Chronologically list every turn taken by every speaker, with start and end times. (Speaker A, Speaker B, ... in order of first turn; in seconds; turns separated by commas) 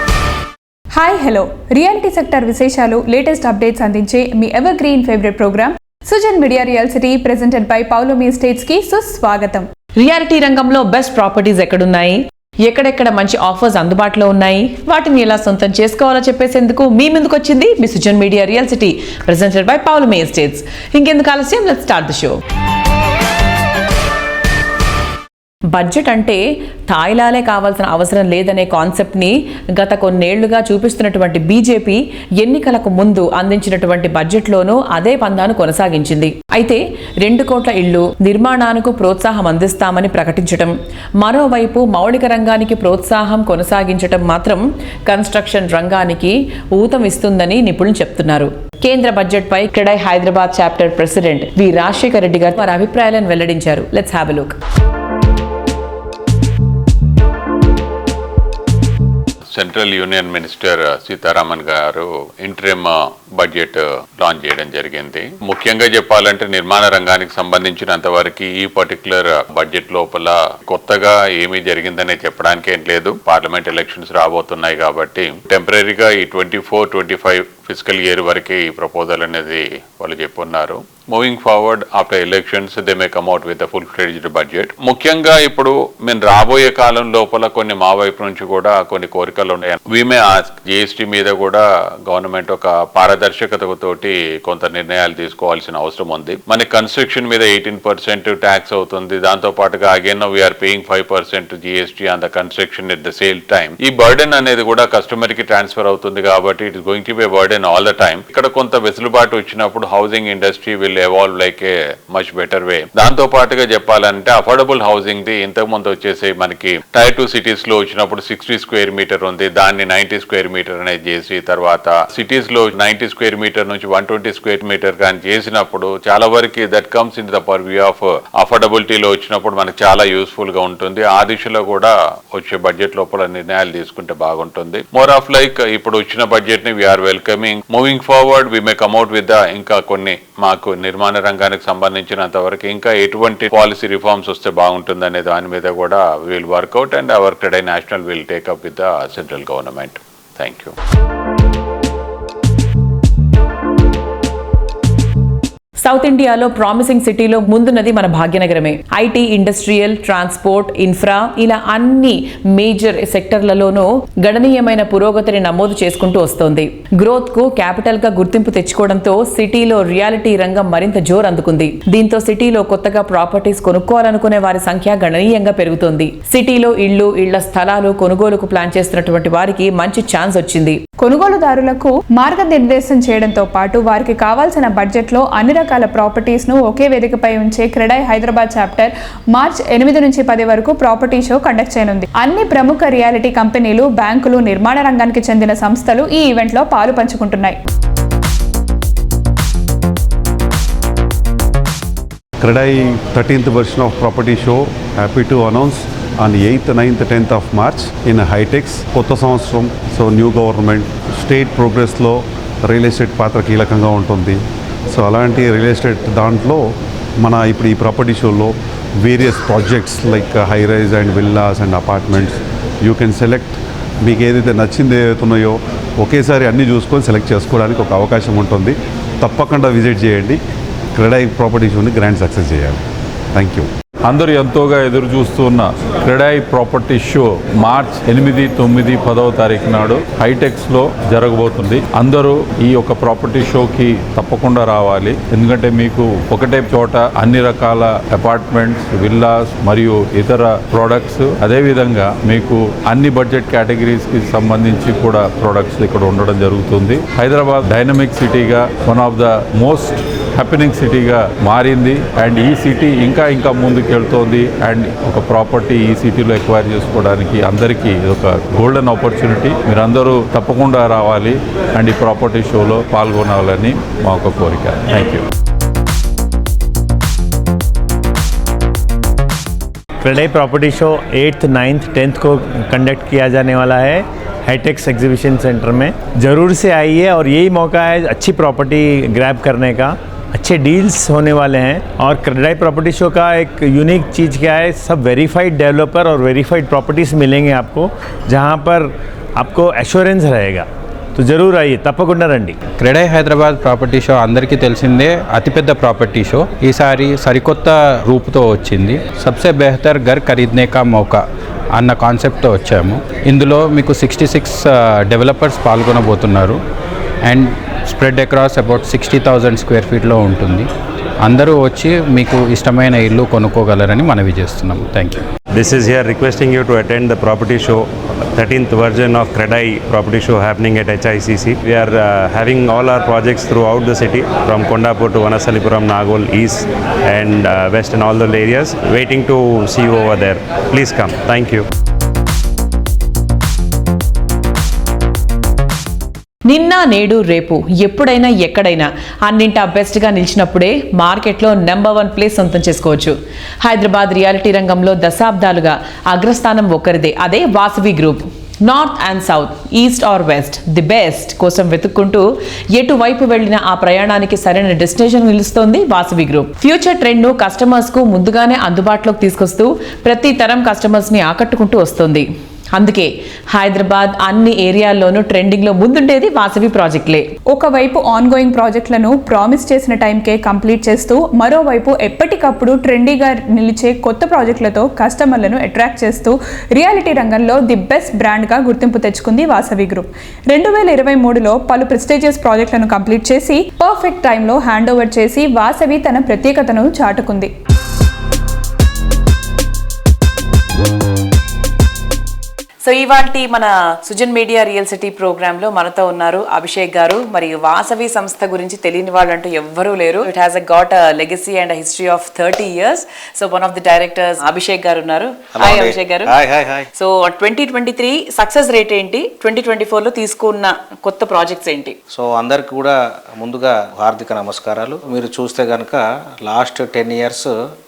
Speaker A: 0.9-9.7, Speaker B: 10.0-22.4, Speaker B: 25.7-54.5, Speaker C: 59.5-150.7, Speaker B: 155.8-180.8, Speaker A: 181.0-197.6, Speaker D: 202.4-216.6, Speaker D: 217.2-230.4, Speaker D: 230.9-232.8, Speaker D: 233.3-233.7, Speaker E: 234.1-275.2, Speaker F: 280.0-302.6, Speaker G: 302.8-311.2, Speaker G: 311.7-316.6, Speaker G: 317.2-320.7, Speaker G: 321.2-325.2, Speaker H: 325.5-341.6, Speaker B: 346.4-377.3, Speaker A: 377.5-397.5, Speaker B: 402.8-416.3, Speaker I: 415.6-416.9, Speaker B: 416.9-421.9, Speaker I: 422.1-427.5